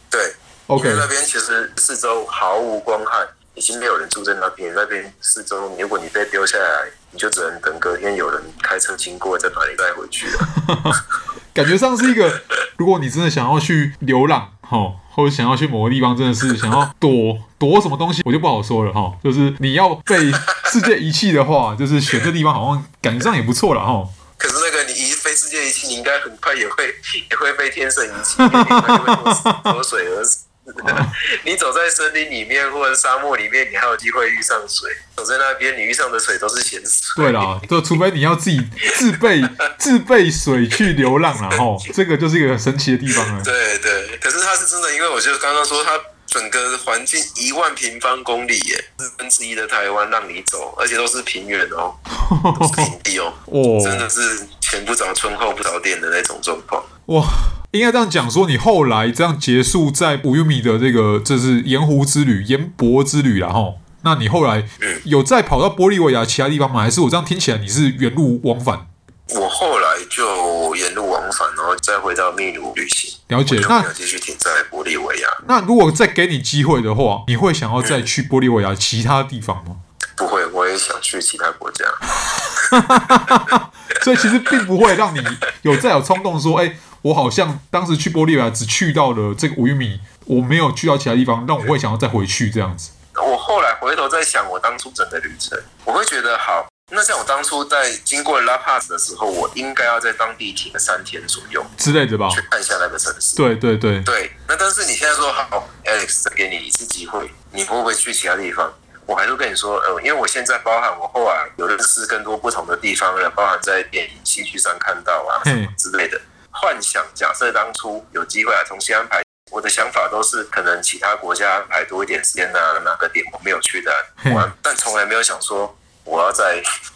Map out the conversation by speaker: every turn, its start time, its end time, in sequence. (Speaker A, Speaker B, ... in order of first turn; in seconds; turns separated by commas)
Speaker A: 0.1-10.5, Speaker B: 0.7-1.1, Speaker B: 10.4-24.1, Speaker A: 20.3-20.8, Speaker A: 24.4-37.7, Speaker B: 28.4-29.7, Speaker B: 37.1-43.5, Speaker A: 41.3-41.6, Speaker A: 43.1-52.0, Speaker B: 52.1-52.9, Speaker A: 52.5-56.9, Speaker B: 53.5-54.1, Speaker B: 57.1-68.9, Speaker A: 69.3-75.4, Speaker B: 73.3-73.9, Speaker B: 75.4-79.8, Speaker A: 77.8-78.0, Speaker A: 80.2-83.6, Speaker B: 82.3-92.9, Speaker A: 84.1-84.6, Speaker A: 93.2-101.7, Speaker B: 101.8-102.4, Speaker A: 102.3-103.4, Speaker B: 103.3-104.1, Speaker A: 104.0-126.6, Speaker B: 115.4-115.7, Speaker B: 124.2-124.5